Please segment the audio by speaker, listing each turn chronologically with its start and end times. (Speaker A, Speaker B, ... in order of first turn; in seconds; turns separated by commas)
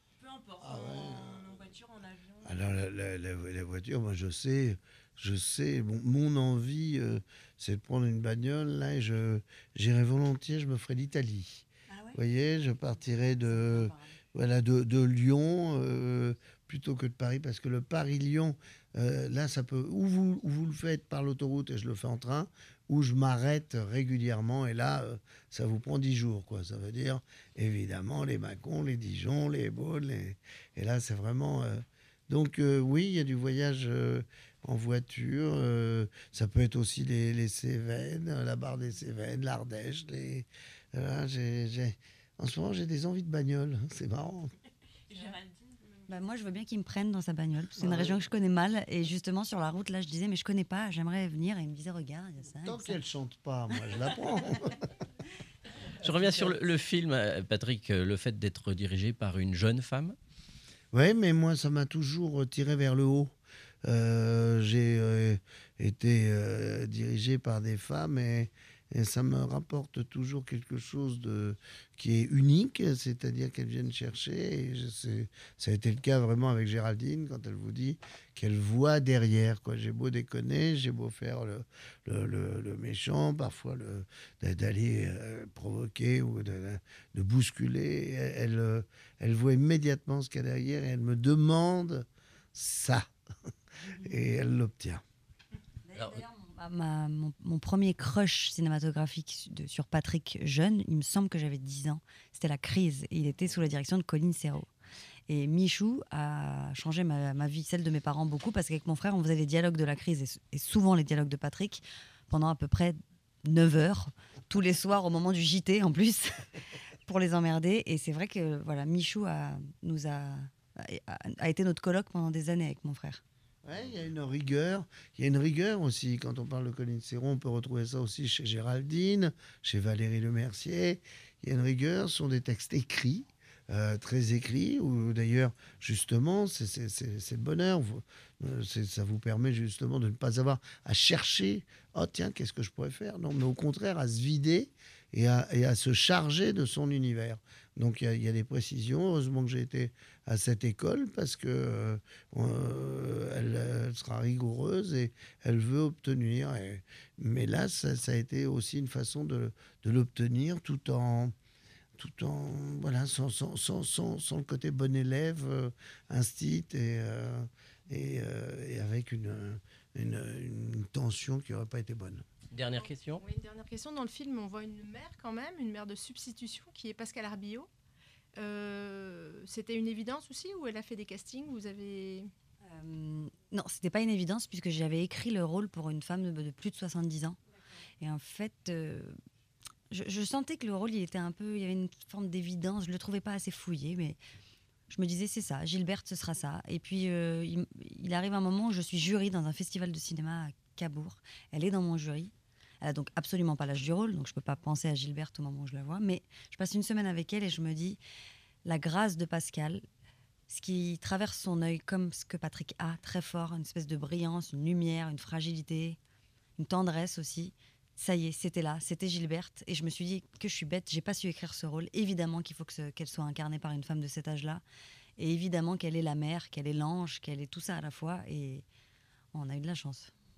Speaker A: 0.2-2.8, Speaker B: 0.6-1.6, Speaker B: 2.4-44.5, Speaker C: 11.9-12.2, Speaker C: 12.9-14.2, Speaker A: 45.0-46.3, Speaker C: 45.1-45.4, Speaker C: 46.1-53.0, Speaker B: 47.8-48.2, Speaker B: 52.6-54.9, Speaker D: 56.0-60.2, Speaker B: 60.9-63.3, Speaker B: 63.8-93.1, Speaker C: 93.9-94.1, Speaker B: 94.0-95.0, Speaker C: 95.9-104.7, Speaker D: 96.0-96.2, Speaker C: 105.3-116.5, Speaker C: 117.1-123.2, Speaker B: 123.6-161.3, Speaker B: 162.0-172.2, Speaker D: 172.5-173.2, Speaker E: 172.8-177.7, Speaker E: 178.3-182.3, Speaker C: 182.7-187.4, Speaker C: 188.0-189.2, Speaker C: 189.9-194.2, Speaker C: 194.9-208.0, Speaker C: 208.6-209.8, Speaker C: 210.5-216.0, Speaker C: 216.6-224.6, Speaker C: 225.2-228.7, Speaker C: 229.3-230.1